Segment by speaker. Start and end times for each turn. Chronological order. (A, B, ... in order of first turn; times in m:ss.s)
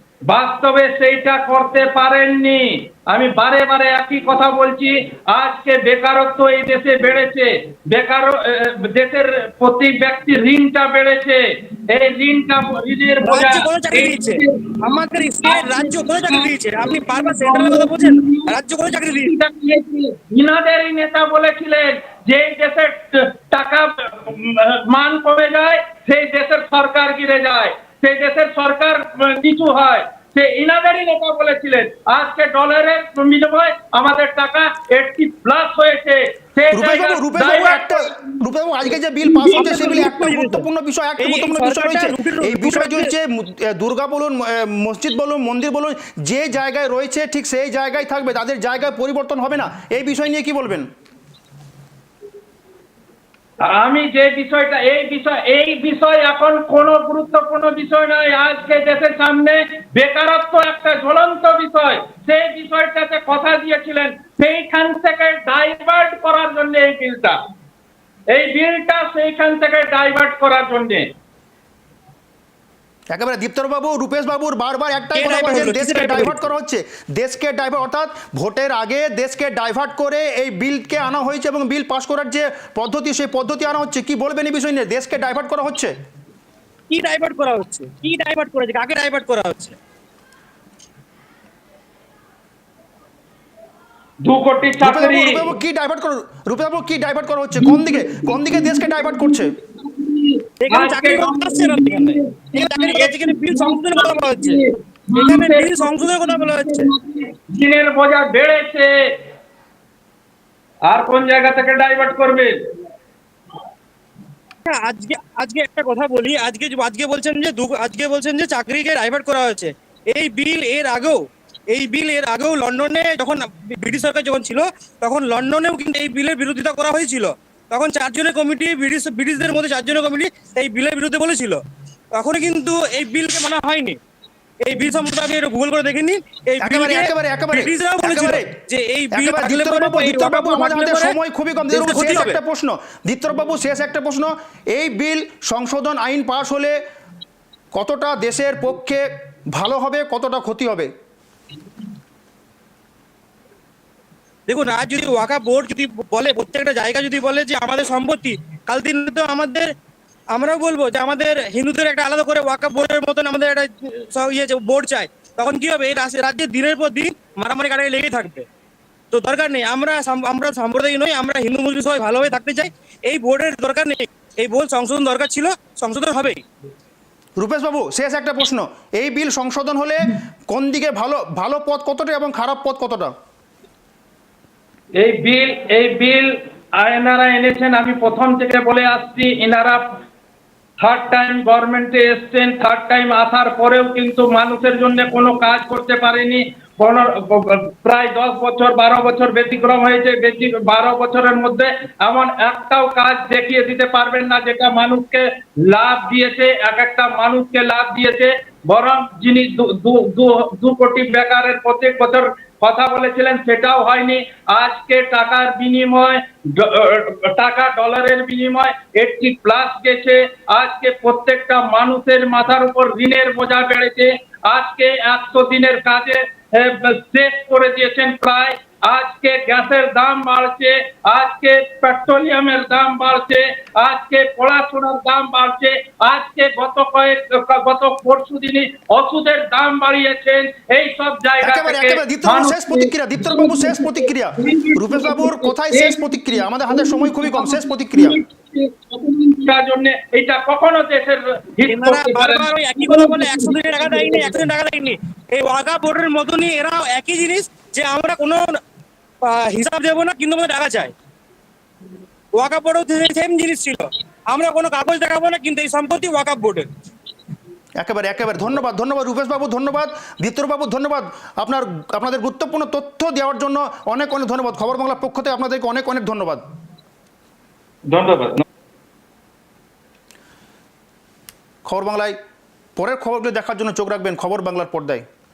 0:00.3-0:14.8 A
0:13.2-0:19.3 B
0:15.4-0:18.5 A
0:19.1-0:38.4 A
0:36.7-0:50.8 C
0:39.2-0:40.2 A
0:39.5-0:40.7 B
0:41.2-0:43.1 B
0:53.6-1:07.4 A
1:08.3-1:11.1 A
1:13.1-1:25.9 C
1:15.2-1:16.5 B
1:26.9-1:29.8 B
1:34.2-1:35.5 A
1:34.8-1:39.5 C
1:37.6-1:48.9 A
1:40.6-1:44.6 B
1:45.1-1:46.9 B
1:50.9-1:52.5 A
1:54.7-2:11.6 B
2:12.2-2:14.0 B
2:14.6-2:21.2 B
2:16.6-2:18.5 C
2:19.1-2:26.8 C
2:21.7-2:22.4 B
2:27.7-2:30.9 C
2:34.5-2:39.7 B
2:40.3-2:48.4 B
2:49.1-2:56.4 B
2:57.4-3:03.1 C
3:05.0-3:09.8 A
3:10.8-4:14.4 A
4:01.4-4:08.2 C
4:11.7-4:18.6 B
4:19.2-4:20.9 B
4:22.4-4:26.7 B
4:27.8-4:36.4 C
4:37.9-4:38.4 A
4:41.7-4:42.2 C
4:42.8-4:45.0 C